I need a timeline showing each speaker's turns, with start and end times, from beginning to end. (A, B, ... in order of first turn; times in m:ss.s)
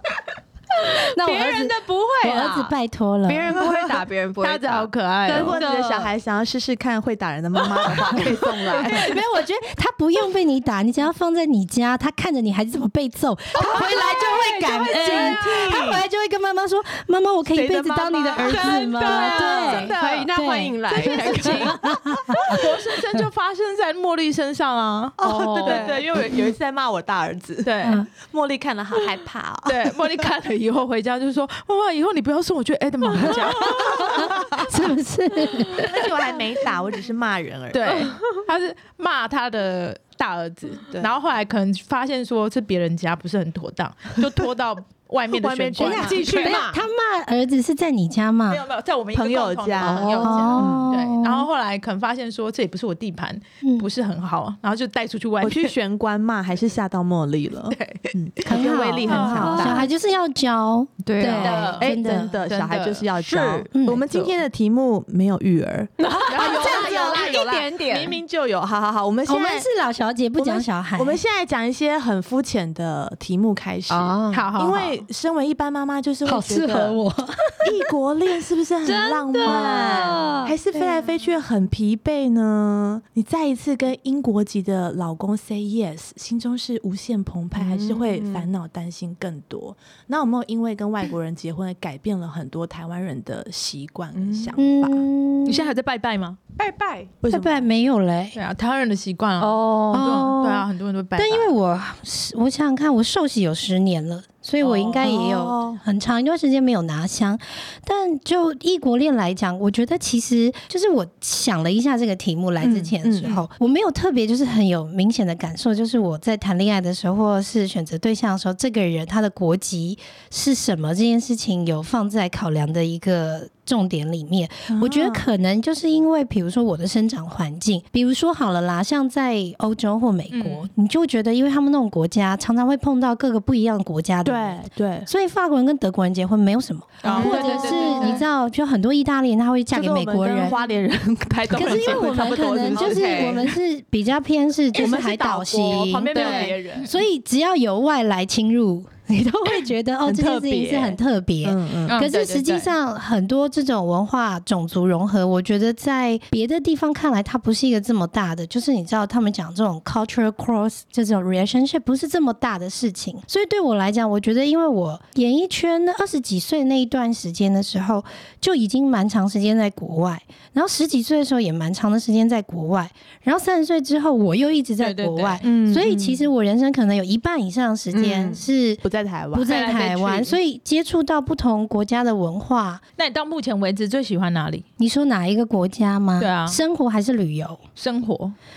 0:00.8-0:02.7 A
0:00.9-0:03.6 B
0:03.2-0:06.1 A
0:04.4-0:05.6 C
0:05.2-0:09.2 D
0:07.7-0:09.1 A
0:08.9-0:22.6 B
0:13.5-0:15.7 A
0:13.6-0:16.0 D
0:17.5-0:20.3 D
0:18.4-0:22.0 A
0:19.2-0:20.0 C
0:21.0-0:21.6 C
0:22.3-0:26.1 C
0:25.2-0:30.0 D
0:25.2-0:26.0 A
0:27.6-0:28.0 C
0:27.8-0:28.1 B
0:29.6-0:34.5 C
0:33.1-0:34.1 A
0:33.3-0:34.2 D
0:34.0-0:36.0 B
0:35.8-0:36.0 A
0:35.8-0:37.9 D
0:37.7-0:46.7 C
0:37.8-0:38.3 A
0:45.3-0:46.6 D
0:45.8-0:48.6 B
0:46.0-0:46.8 A
0:48.5-0:55.7 C
0:49.1-0:50.9 D
0:49.8-0:50.7 A
0:50.2-0:51.5 B
0:55.4-0:59.9 D
0:57.7-0:58.1 C
0:58.4-1:02.4 B
0:58.6-0:59.9 A
0:59.1-0:59.7 C
1:01.0-1:01.9 A
1:01.2-1:01.9 C
1:01.4-1:09.7 D
1:02.5-1:04.3 C
1:02.5-1:02.7 A
1:03.7-1:04.0 B
1:06.0-1:08.2 A
1:06.3-1:07.4 C
1:09.3-1:11.2 B
1:10.4-1:17.0 D
1:13.9-1:14.5 A
1:14.3-1:15.0 C
1:16.2-1:17.6 B
1:17.6-1:35.1 D
1:18.8-1:20.5 A
1:27.5-1:28.5 A
1:34.1-1:34.6 A
1:34.6-1:35.7 B
1:35.4-1:36.6 C
1:36.6-1:37.1 A
1:37.2-1:37.7 D
1:37.2-1:38.4 B
1:38.3-1:41.5 C
1:39.4-1:40.2 A
1:39.9-2:20.6 B
1:44.6-1:44.9 A
1:45.0-1:45.8 D
1:52.6-1:53.4 D
2:04.7-2:05.2 D
2:10.3-2:10.7 C
2:14.2-2:15.1 D
2:17.0-2:18.2 C
2:17.0-2:18.2 A
2:19.7-2:23.4 D
2:21.5-2:22.5 C
2:21.5-2:58.8 B
2:22.3-2:23.4 A
2:24.7-2:26.9 D
2:26.1-2:26.9 C
2:26.1-2:26.5 A
2:30.0-2:32.0 D
2:31.9-2:32.7 C
2:54.8-2:55.4 C
2:55.4-2:56.3 D
2:57.9-2:58.4 A
2:58.8-2:59.5 D
2:59.3-3:02.8 B
2:59.5-3:00.4 C
3:03.0-3:04.6 C
3:04.8-3:07.6 B
3:06.2-3:06.6 C
3:07.8-3:08.3 C